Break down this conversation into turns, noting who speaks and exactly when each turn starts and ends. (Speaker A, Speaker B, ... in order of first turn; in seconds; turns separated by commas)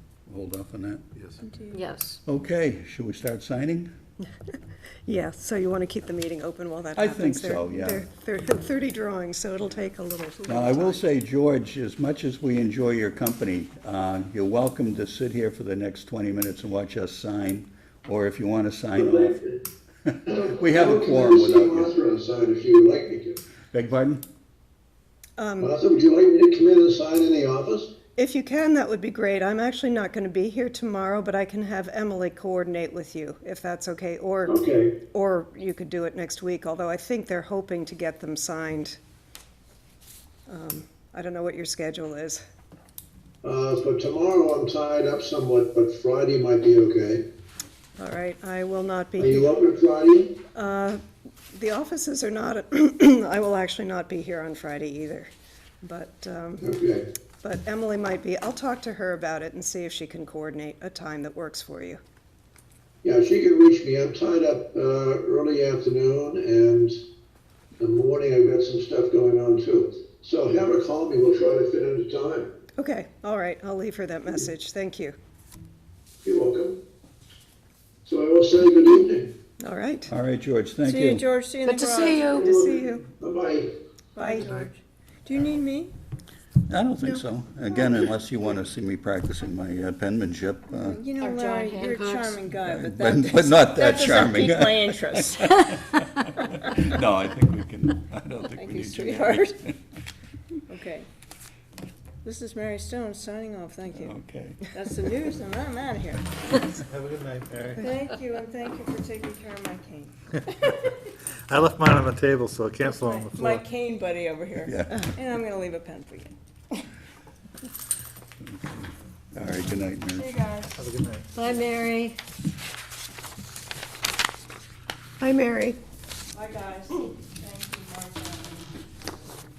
Speaker A: 0.3-1.1, Speaker B: 1.2-1.4, Speaker C: 1.4-1.8, Speaker D: 1.7-2.2, Speaker A: 2.3-3.9, Speaker E: 5.1-11.0, Speaker A: 7.0-8.1, Speaker A: 10.4-19.4, Speaker F: 19.0-19.6, Speaker A: 20.1-21.9, Speaker F: 20.3-23.4, Speaker A: 23.7-24.2, Speaker E: 25.4-25.8, Speaker F: 25.6-28.0, Speaker E: 28.1-39.0, Speaker F: 34.5-35.0, Speaker E: 40.5-42.4, Speaker F: 43.4-47.3, Speaker E: 48.0-49.6, Speaker F: 49.2-50.4, Speaker E: 50.5-51.0, Speaker E: 51.5-56.7, Speaker F: 56.6-57.1, Speaker E: 57.4-62.0, Speaker F: 63.0-67.0, Speaker F: 67.8-72.5, Speaker E: 72.8-75.2, Speaker F: 76.2-76.8, Speaker F: 78.0-79.4, Speaker E: 79.6-80.1, Speaker A: 80.1-81.2, Speaker C: 80.8-82.4, Speaker D: 81.7-82.6, Speaker E: 82.1-83.2, Speaker F: 82.4-83.8, Speaker C: 84.2-85.9, Speaker E: 84.2-84.5, Speaker A: 86.7-91.0, Speaker C: 90.7-95.8, Speaker D: 91.2-92.4, Speaker A: 92.6-99.8, Speaker C: 98.5-99.6, Speaker C: 100.7-101.1, Speaker C: 102.2-106.3, Speaker A: 104.0-104.7, Speaker B: 106.8-107.9, Speaker C: 107.8-110.8, Speaker B: 111.5-113.6, Speaker C: 112.8-116.8, Speaker A: 114.7-115.0, Speaker A: 118.4-120.3, Speaker C: 120.1-120.8, Speaker B: 120.8-121.3, Speaker D: 121.3-122.0, Speaker E: 125.2-125.8, Speaker C: 126.3-128.7